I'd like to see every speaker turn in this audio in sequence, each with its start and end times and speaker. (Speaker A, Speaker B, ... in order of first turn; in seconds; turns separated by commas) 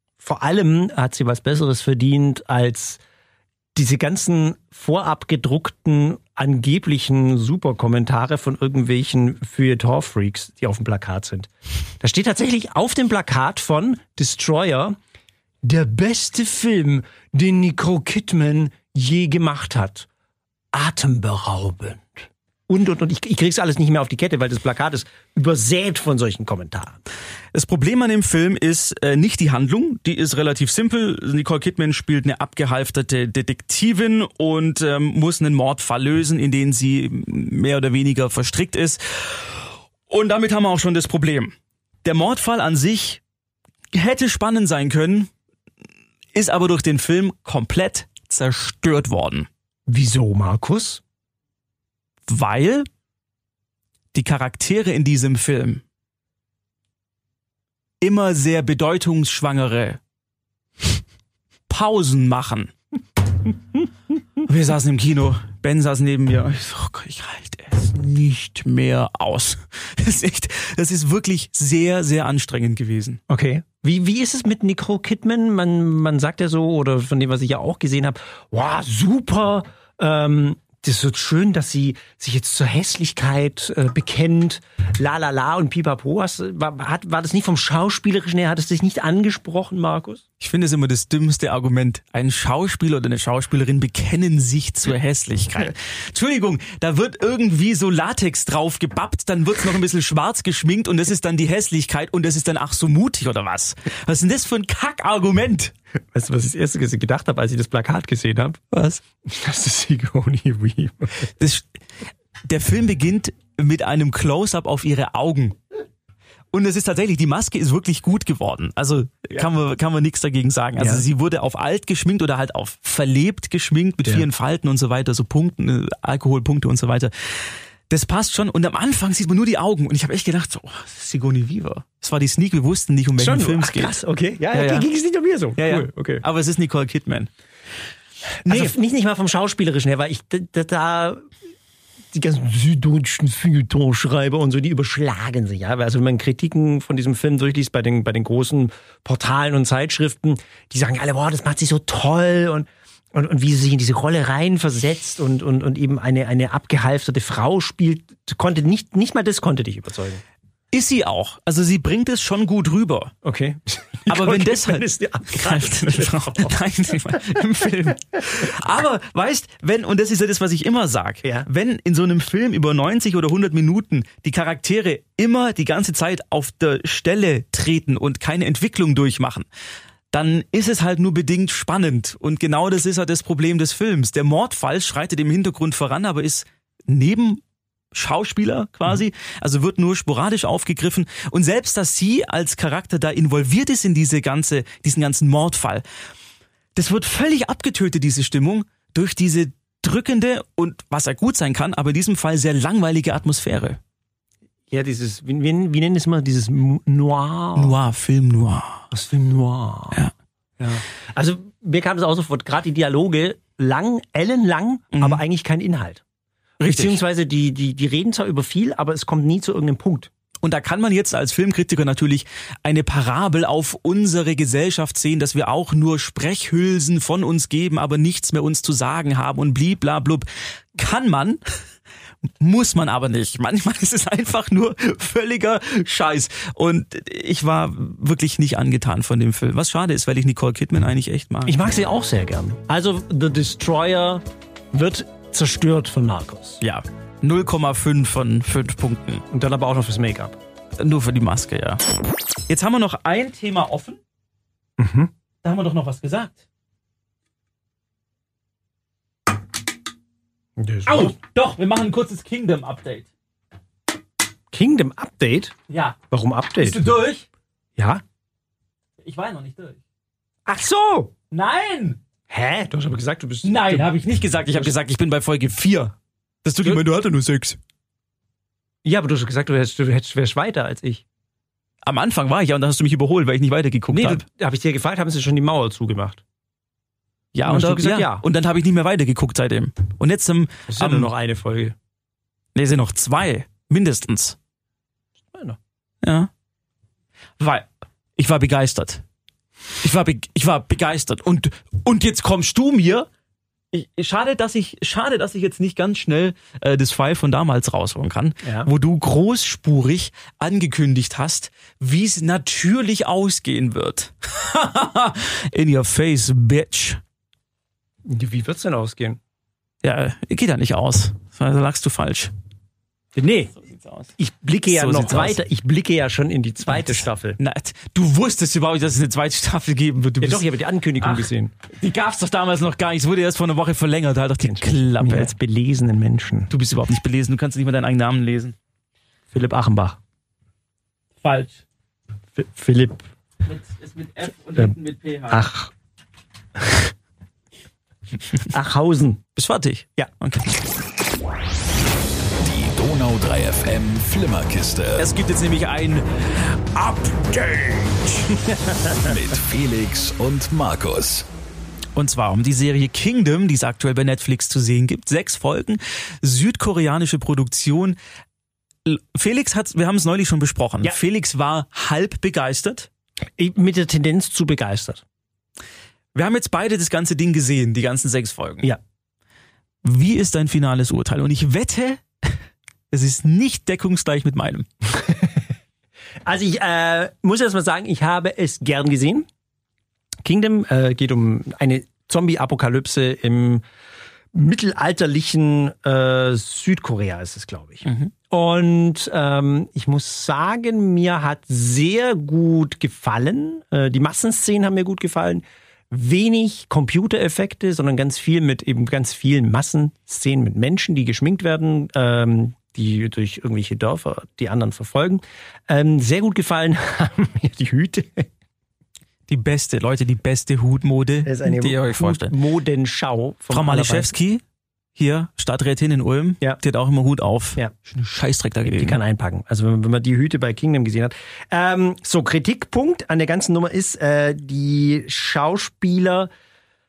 Speaker A: 0.2-3.0, Speaker A: 3.7-11.5, Speaker A: 12.0-15.0, Speaker A: 15.6-20.1, Speaker A: 20.7-27.0, Speaker B: 27.5-43.2, Speaker B: 43.9-45.3, Speaker B: 46.3-49.5, Speaker A: 49.9-51.0, Speaker B: 52.3-52.9, Speaker B: 54.1-55.8, Speaker B: 58.0-60.0, Speaker B: 61.7-62.7, Speaker B: 64.4-73.2, Speaker A: 73.3-90.2, Speaker B: 90.4-105.7, Speaker A: 106.1-111.3, Speaker B: 111.4-111.7, Speaker B: 112.4-115.6, Speaker B: 116.5-134.0, Speaker A: 120.8-121.0, Speaker A: 133.2-136.2, Speaker B: 134.5-134.8, Speaker B: 135.6-137.3, Speaker B: 138.4-138.7, Speaker A: 138.4-141.3, Speaker A: 142.1-160.2, Speaker B: 160.7-163.1, Speaker A: 163.2-166.6, Speaker B: 164.1-179.5, Speaker B: 180.1-187.4, Speaker B: 187.9-195.8, Speaker B: 196.8-203.8, Speaker A: 204.7-207.7, Speaker B: 207.6-208.8, Speaker A: 208.9-210.0, Speaker A: 210.6-216.0, Speaker B: 214.9-215.2, Speaker B: 216.6-217.0, Speaker A: 216.6-220.1, Speaker B: 220.4-231.4, Speaker B: 232.4-241.6, Speaker A: 241.4-246.6, Speaker B: 246.6-249.2, Speaker A: 249.3-250.4, Speaker B: 250.8-251.8, Speaker B: 252.5-254.0, Speaker A: 254.8-255.1, Speaker B: 255.4-256.4, Speaker A: 260.6-261.1, Speaker B: 260.9-263.1, Speaker A: 264.5-265.5, Speaker B: 265.7-266.0, Speaker A: 266.1-266.9, Speaker B: 266.6-267.3, Speaker A: 267.8-268.0, Speaker B: 269.0-269.8, Speaker A: 270.4-271.1, Speaker B: 271.3-272.0, Speaker A: 272.3-273.9, Speaker B: 273.4-277.6, Speaker A: 278.8-281.0, Speaker B: 281.8-284.2, Speaker A: 283.9-286.2, Speaker B: 287.3-291.1, Speaker A: 287.4-288.2, Speaker A: 290.7-291.8, Speaker B: 292.5-294.4, Speaker A: 295.3-295.6, Speaker B: 296.0-296.3, Speaker B: 297.4-299.0, Speaker B: 299.8-303.1, Speaker B: 303.7-317.0, Speaker A: 308.4-308.7, Speaker A: 318.1-319.2, Speaker B: 319.8-322.3, Speaker A: 323.1-323.6, Speaker B: 323.6-324.1, Speaker A: 324.2-327.4, Speaker B: 324.7-325.4, Speaker B: 326.7-330.4, Speaker A: 330.2-331.5, Speaker B: 331.0-335.3, Speaker A: 334.4-336.5, Speaker B: 336.5-338.6, Speaker A: 339.3-340.0, Speaker B: 341.2-341.6, Speaker A: 342.4-343.0, Speaker B: 343.4-345.4, Speaker A: 345.3-345.7, Speaker A: 346.6-346.9, Speaker A: 348.5-349.2, Speaker B: 349.4-350.4, Speaker C: 352.4-355.1, Speaker B: 355.0-358.3, Speaker C: 359.0-361.2, Speaker B: 361.9-368.0, Speaker B: 368.8-372.9, Speaker A: 373.4-375.0, Speaker B: 376.1-378.7, Speaker B: 379.8-382.4, Speaker B: 382.9-384.7, Speaker A: 385.0-385.3, Speaker A: 386.2-389.2, Speaker A: 390.2-393.6, Speaker A: 394.3-418.3, Speaker B: 397.9-398.1, Speaker B: 419.3-422.3, Speaker A: 421.2-424.1, Speaker B: 423.5-424.4, Speaker B: 424.9-429.0, Speaker A: 428.6-436.3